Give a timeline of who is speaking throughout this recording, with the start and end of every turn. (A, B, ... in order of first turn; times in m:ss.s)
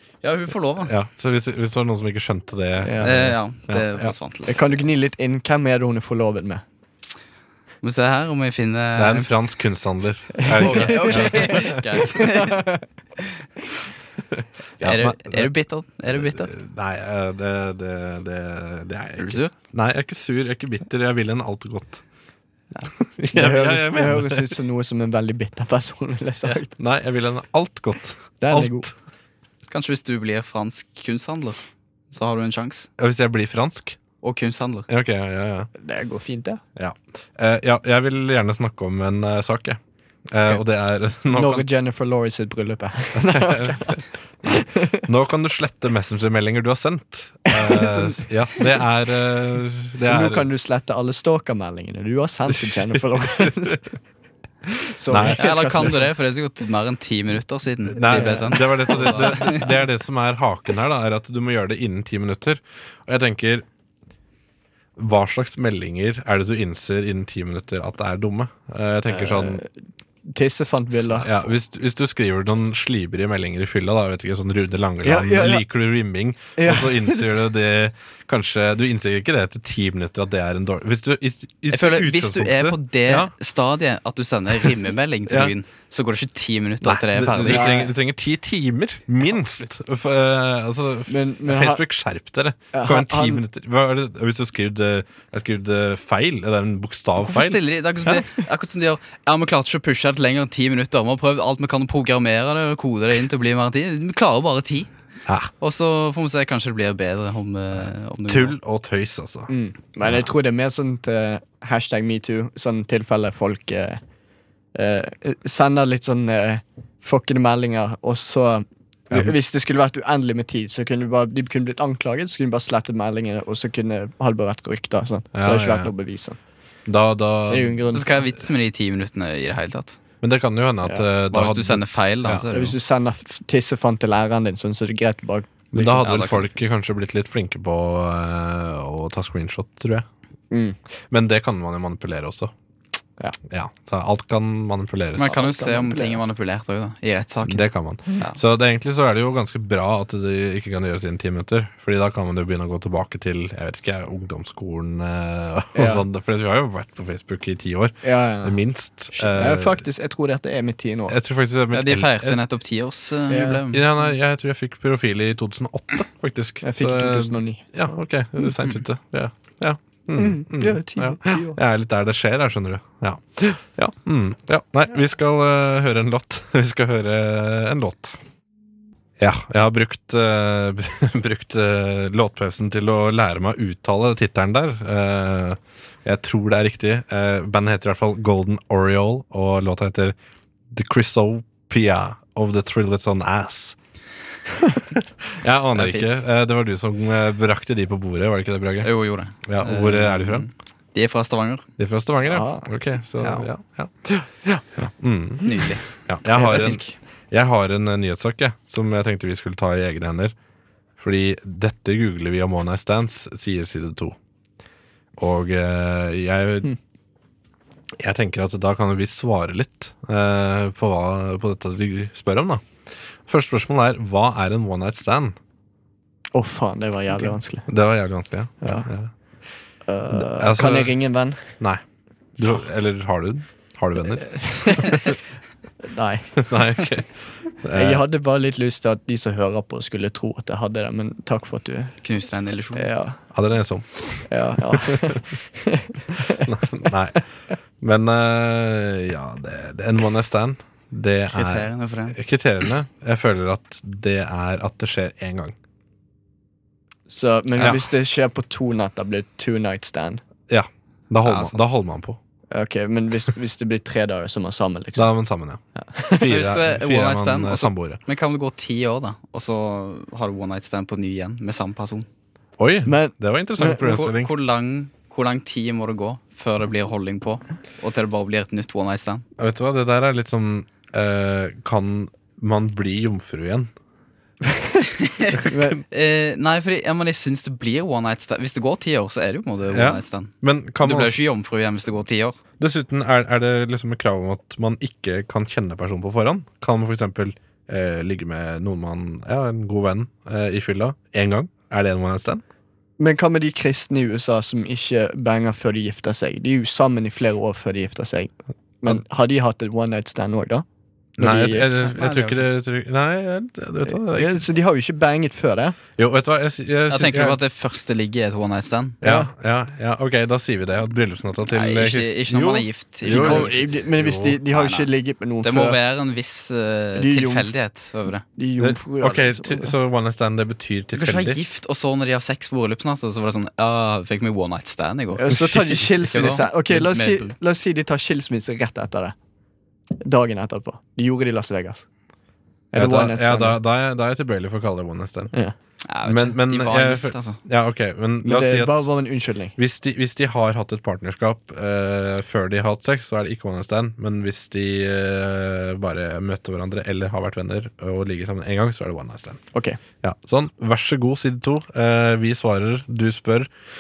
0:00.2-0:00.9 A
0:00.8-0:04.1 B
0:02.8-0:03.1 C
0:03.0-0:04.8 A
0:04.5-0:06.6 C
0:07.8-0:09.3 A
0:09.0-0:12.0 B
0:10.5-0:11.6 C
0:10.6-0:13.2 A
0:12.2-0:12.7 C
0:14.3-0:15.5 B
0:14.8-0:16.5 A
0:16.1-0:22.0 B
0:19.2-0:19.6 A
0:23.1-0:24.5 B
0:23.3-0:26.7 C
0:26.8-0:28.9 B
0:28.4-0:28.9 C
0:29.7-0:31.6 A
0:32.1-0:32.9 A
0:33.0-0:34.0 B
0:34.2-0:34.9 A
0:34.9-0:35.7 B
0:35.8-0:36.6 C
0:36.8-0:41.7 B
0:41.3-0:45.0 C
0:43.2-0:50.5 B
0:47.5-0:48.7 C
0:50.0-0:53.9 C
0:52.5-0:53.8 B
0:54.9-0:56.1 C
0:55.1-0:55.9 B
0:55.4-0:59.7 A
0:57.9-1:03.6 B
0:58.1-0:59.2 C
1:05.0-1:09.6 B
1:09.1-1:09.7 C
1:10.3-1:11.4 C
1:11.2-1:23.3 B
1:15.0-1:15.6 C
1:16.6-1:17.2 C
1:21.7-1:27.8 A
1:25.3-1:25.5 B
1:26.8-1:37.6 B
1:27.4-1:27.9 C
1:29.3-1:29.6 A
1:31.1-1:31.8 C
1:32.7-1:33.4 C
1:37.2-1:44.9 A
1:45.3-1:45.5 B
1:45.6-1:48.6 A
1:47.8-1:49.5 B
1:49.5-1:54.0 C
1:54.8-2:06.4 C
2:05.3-2:05.9 B
2:06.9-2:07.8 B
2:07.4-2:08.1 C
2:07.9-2:10.0 A
2:10.2-2:12.5 B
2:11.3-2:12.8 A
2:12.5-2:16.0 C
2:15.7-2:20.1 B
2:16.0-2:16.5 A
2:20.5-2:20.8 C
2:21.1-2:22.5 B
2:23.5-2:25.4 B
2:25.2-2:28.4 A
2:25.2-2:26.3 C
2:27.4-2:39.8 B
2:35.8-2:36.0 C
2:38.0-2:38.6 C
2:39.2-2:39.5 A
2:39.3-2:41.2 C
2:41.1-2:42.4 B
2:41.7-2:43.8 A
2:43.3-2:43.6 C
2:43.7-2:58.2 B
2:46.6-2:47.7 C
2:50.2-2:51.6 C
2:59.2-3:10.2 B
3:10.7-3:13.8 B
3:15.0-3:18.9 B
3:15.8-3:16.2 A
3:18.8-3:21.7 A
3:19.4-3:20.5 B
3:21.8-3:30.4 B
3:22.3-3:22.7 C
3:23.2-3:23.5 A
3:25.4-3:26.9 A
3:26.3-3:26.9 C
3:31.0-3:34.2 B
3:35.2-3:36.7 B
3:38.0-3:42.7 B
3:43.3-3:45.4 B
3:46.3-3:47.7 C
3:47.7-3:49.1 B
3:48.6-3:48.9 C
3:49.9-3:51.5 C
3:50.1-3:51.0 B
3:52.4-3:55.2 B
3:54.2-3:55.2 C
3:55.8-3:56.4 C
3:56.4-3:57.1 B
3:57.6-3:58.0 B
3:57.7-4:01.9 C
4:02.0-4:02.9 A
4:02.8-4:03.2 C
4:03.3-4:05.2 B
4:04.3-4:06.4 C
4:06.4-4:07.2 B
4:07.8-4:15.6 B
4:11.3-4:12.2 A
4:17.1-4:20.2 C
4:17.6-4:17.9 B
4:20.5-4:22.2 B
4:21.2-4:21.7 A
4:22.5-4:25.2 C
4:25.0-4:25.6 B
4:25.8-4:26.3 C
4:26.2-4:28.0 B
4:26.3-4:32.1 A
4:32.6-4:34.3 B
4:32.9-4:33.9 C
4:33.8-4:39.2 A
4:39.4-4:43.7 B
4:44.5-4:44.8 C
4:45.0-4:52.4 A
4:45.4-4:45.8 C
4:49.7-4:51.2 B
4:52.6-5:02.4 B
5:03.0-5:10.6 C
5:11.2-5:11.7 C
5:11.2-5:14.4 B
5:11.8-5:12.5 A
5:13.8-5:15.8 C
5:16.0-5:17.4 B
5:16.9-5:19.0 A
5:19.0-5:24.4 B
5:19.0-5:19.3 C
5:21.5-5:23.9 A
5:23.0-5:25.8 C
5:24.5-5:24.9 A
5:25.4-5:28.2 A
5:27.0-5:27.5 C
5:28.4-5:29.7 C
5:28.6-5:31.4 B
5:30.9-5:37.3 A
5:35.1-5:39.2 C
5:40.0-5:41.9 C
5:42.7-5:43.6 C
5:42.7-5:45.3 B
5:45.9-5:47.4 A
5:46.0-5:48.9 B
5:48.2-5:49.6 C
5:49.6-5:59.4 B
5:59.5-5:59.8 C
6:00.0-6:03.5 B